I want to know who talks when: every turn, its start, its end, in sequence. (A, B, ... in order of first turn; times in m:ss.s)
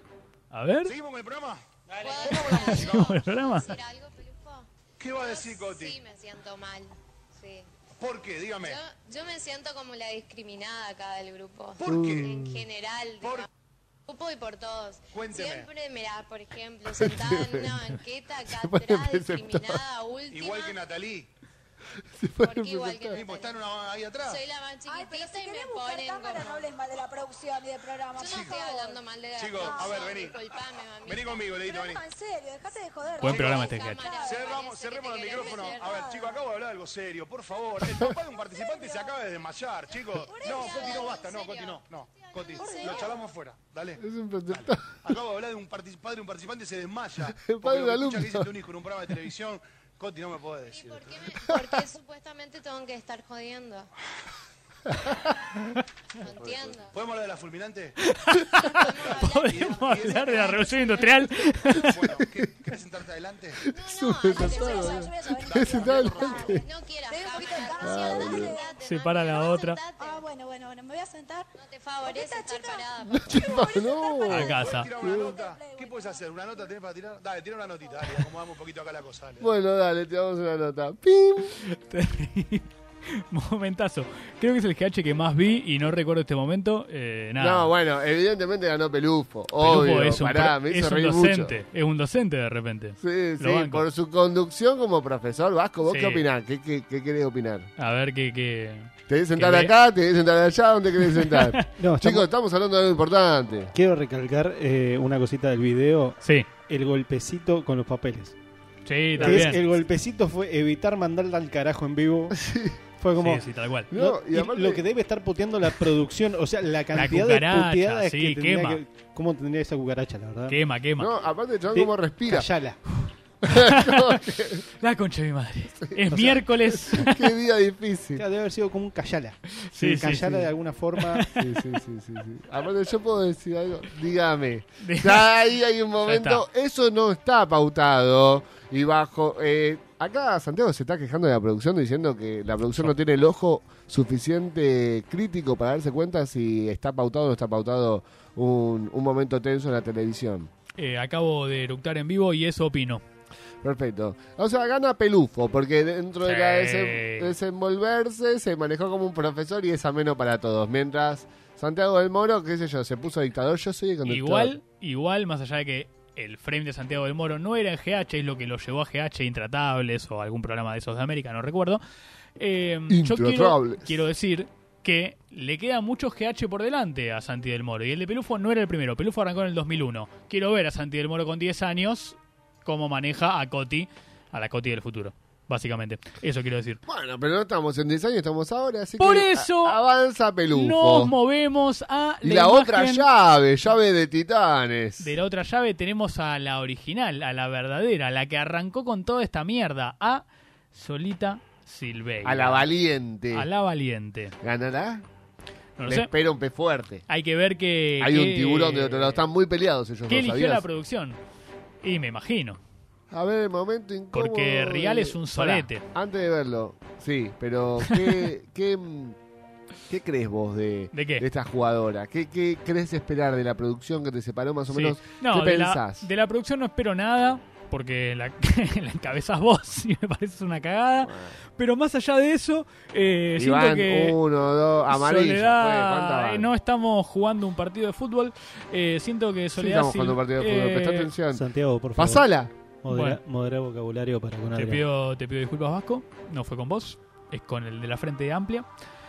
0:00.5-0:00.9 A
0:00.8-0:03.1 B
0:02.0-0:07.7 C
0:02.4-0:03.7 A
0:05.0-0:06.0 B
0:08.0-0:08.8 B
0:08.6-0:13.5 C
0:11.8-0:12.5 B
0:11.8-0:12.6 D
0:13.2-0:13.5 B
0:14.1-0:20.8 C
0:15.1-0:15.7 B
0:17.0-0:18.0 D
0:18.5-0:19.8 D
0:20.3-0:21.3 B
0:22.1-0:23.2 D
0:22.4-0:23.6 C
0:23.1-0:24.4 B
0:24.2-0:26.7 C
0:24.9-0:29.0 E
0:28.2-0:31.6 C
0:28.2-0:28.6 B
0:29.3-0:32.0 B
0:29.6-0:30.1 E
0:31.6-0:34.5 E
0:33.2-0:34.0 A
0:33.2-0:36.1 C
0:33.3-0:51.3 B
0:35.5-0:36.4 E
0:38.5-0:39.2 E
0:40.3-0:41.2 E
0:40.4-0:43.3 C
0:42.6-0:43.2 E
0:44.0-0:44.9 D
0:47.3-0:48.5 D
0:50.7-0:53.9 C
0:56.2-0:56.9 C
0:56.9-0:58.0 B
0:58.0-1:02.0 A
0:58.5-1:01.3 C
0:59.0-1:00.7 B
1:01.8-1:03.6 B
1:03.7-1:06.6 D
1:03.7-1:05.1 C
1:04.2-1:08.7 E
1:05.4-1:06.6 B
1:06.1-1:10.2 C
1:07.8-1:08.6 D
1:08.8-1:09.8 A
1:10.0-1:11.5 E
1:11.6-1:13.6 C
1:12.0-1:16.7 E
1:13.0-1:15.3 D
1:14.3-1:14.9 A
1:14.5-1:19.5 B
1:19.4-1:21.6 D
1:21.6-1:27.7 A
1:27.4-1:31.6 D
1:29.6-1:33.8 A
1:33.0-1:37.7 D
1:35.9-1:36.3 A
1:37.8-1:39.7 A
1:39.1-1:43.7 D
1:41.0-1:41.6 A
1:41.8-1:42.3 F
1:43.7-1:48.4 F
1:46.2-1:46.5 A
1:48.9-1:49.6 A
1:49.2-1:49.6 D
1:49.2-1:52.4 F
1:52.4-1:52.8 D
1:53.0-2:00.6 F
1:53.2-1:53.9 A
1:53.9-1:54.8 D
1:56.9-1:58.8 A
2:00.5-2:01.1 A
2:01.0-2:02.5 D
2:01.7-2:02.8 F
2:03.5-2:04.6 D
2:03.5-2:04.2 A
2:04.8-2:07.3 A
2:05.8-2:08.2 D
2:08.2-2:11.2 F
2:09.6-2:11.4 A
2:11.4-2:30.5 D
2:14.8-2:15.3 A
2:16.0-2:16.4 A
2:30.8-2:33.0 A
2:33.6-2:44.6 D
2:36.2-2:37.3 A
2:44.0-2:51.8 A
2:52.4-3:06.8 A
2:52.9-2:54.0 D
3:06.9-3:11.1 D
3:09.0-3:09.8 A
3:10.5-3:13.1 A
3:12.2-3:15.1 D
3:15.0-3:22.7 A
3:22.2-3:23.5 D
3:23.3-3:24.4 A
3:24.4-3:25.0 D
3:25.8-3:26.1 A
3:25.9-3:27.0 D
3:27.1-3:29.2 A
3:28.0-3:30.6 D
3:30.1-3:31.2 A
3:31.8-3:32.6 A
3:33.1-3:39.2 D
3:34.1-3:35.8 A
3:37.9-3:38.3 A
3:39.9-3:46.1 D
3:40.9-3:41.3 A
3:44.7-3:54.2 A
3:51.0-3:51.4 D
3:53.4-3:56.5 D
3:54.9-4:01.1 A
3:59.6-4:02.5 D
4:01.3-4:02.3 F
4:02.8-4:04.8 F
4:02.9-4:03.2 A
4:04.6-4:08.7 A